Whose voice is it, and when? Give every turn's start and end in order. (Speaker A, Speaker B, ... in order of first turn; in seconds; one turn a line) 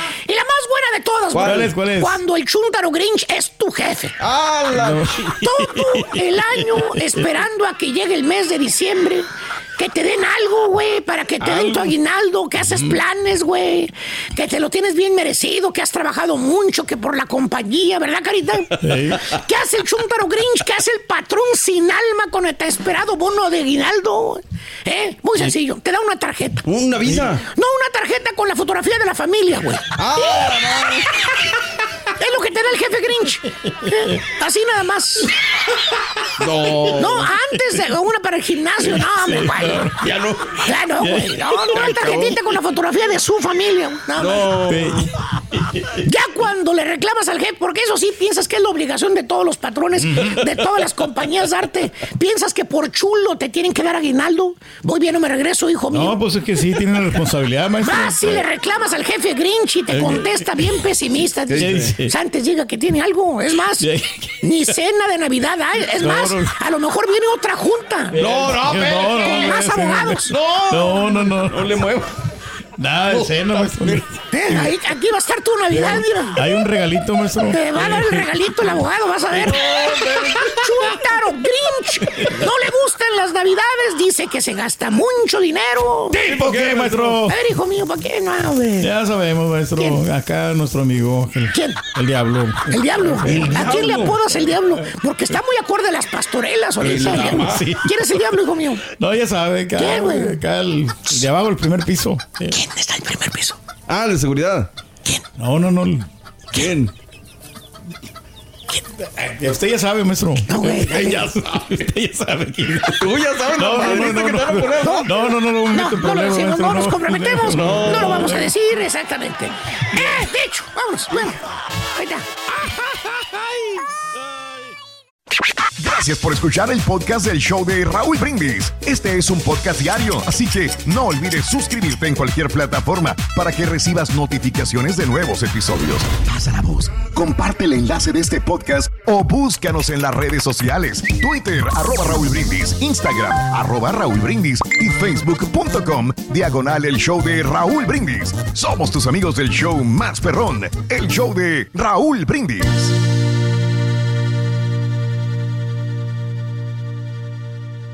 Speaker A: 0.3-4.1
Speaker B: 1.3-1.7
Speaker C: 1.4-2.2
Speaker B: 4.2-5.4
Speaker C: 4.7-7.2
Speaker A: 5.4-18.7
Speaker B: 11.4-11.9
Speaker C: 12.6-13.0
Speaker C: 18.8-19.2
Speaker A: 19.2-26.6
Speaker B: 26.6-27.5
Speaker A: 27.4-30.6
Speaker B: 29.9-31.1
Speaker A: 32.2-35.3
Speaker B: 36.4-37.3
Speaker A: 37.0-39.9
Speaker C: 37.5-37.8
Speaker C: 38.9-40.0
Speaker B: 39.9-40.6
Speaker A: 40.6-44.5
Speaker C: 41.0-42.4
Speaker B: 44.1-45.1
Speaker C: 44.6-45.9
Speaker A: 46.0-56.2
Speaker C: 50.0-50.5
Speaker C: 55.9-58.5
Speaker A: 57.8-63.9
Speaker C: 59.9-60.6
Speaker B: 61.5-62.0
Speaker C: 61.5-62.1
Speaker C: 63.8-64.7
Speaker A: 64.4-68.2
Speaker C: 65.9-66.5
Speaker C: 68.1-71.6
Speaker B: 68.2-69.6
Speaker A: 68.9-70.3
Speaker B: 70.3-72.1
Speaker C: 72.8-74.2
Speaker B: 73.1-74.2
Speaker A: 74.3-76.5
Speaker C: 75.7-78.3
Speaker A: 77.5-86.2
Speaker B: 79.3-81.0
Speaker C: 82.1-82.5
Speaker C: 86.1-87.4
Speaker B: 86.1-87.3
Speaker A: 87.3-88.9
Speaker C: 88.8-93.8
Speaker A: 91.5-91.8
Speaker A: 92.7-98.8
Speaker B: 93.2-94.4
Speaker B: 96.8-97.7
Speaker C: 97.0-98.2
Speaker C: 98.9-102.6
Speaker A: 99.8-100.4
Speaker A: 102.5-103.6
Speaker B: 103.9-104.7
Speaker C: 105.4-106.1
Speaker B: 106.5-106.9
Speaker C: 109.1-113.0
Speaker A: 110.5-111.2
Speaker B: 110.6-111.8
Speaker B: 113.0-115.1
Speaker C: 113.5-118.5
Speaker A: 114.8-115.1
Speaker A: 115.7-121.4
Speaker B: 117.5-118.4
Speaker A: 121.9-123.2
Speaker D: 125.8-152.9